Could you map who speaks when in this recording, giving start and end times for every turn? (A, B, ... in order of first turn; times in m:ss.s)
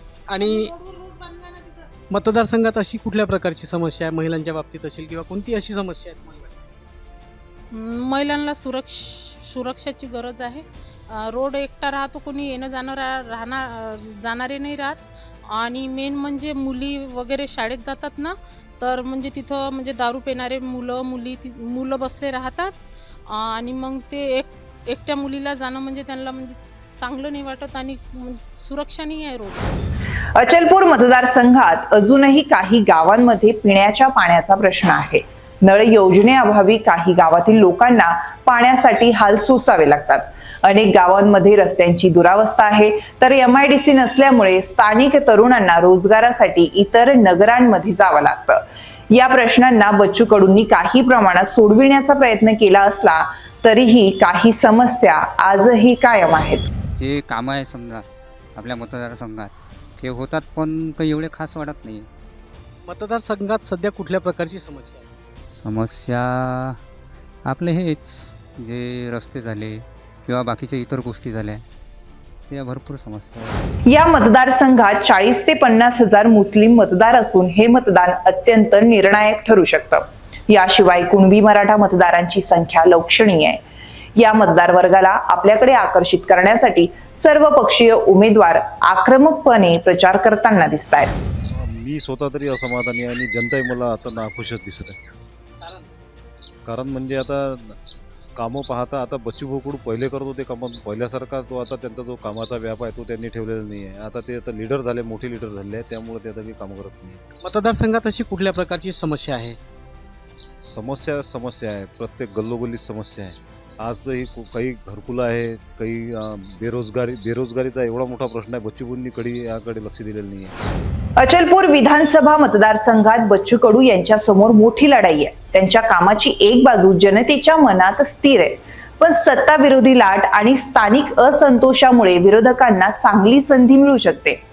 0:00.3-0:00.7 A
0:00.4-0:01.9 B
0:02.1-0:06.6 A
0:07.7-0:15.0 B
0:15.5-0:22.7 B
0:23.3-0:29.8 B
0:30.4-0:48.6 C
0:49.1-0:56.6 C
0:57.0-1:02.1 D
1:02.8-1:05.1 A
1:05.6-1:06.8 D
1:07.4-1:11.6 D
1:12.5-1:13.6 D
1:13.9-1:23.6 C
1:24.2-1:31.1 C
1:31.5-1:35.0 E
1:35.6-1:35.9 A
1:36.7-1:37.8 E
1:38.4-1:47.2 E
1:47.4-1:49.6 A
1:50.7-2:00.5 E
2:01.2-2:14.4 C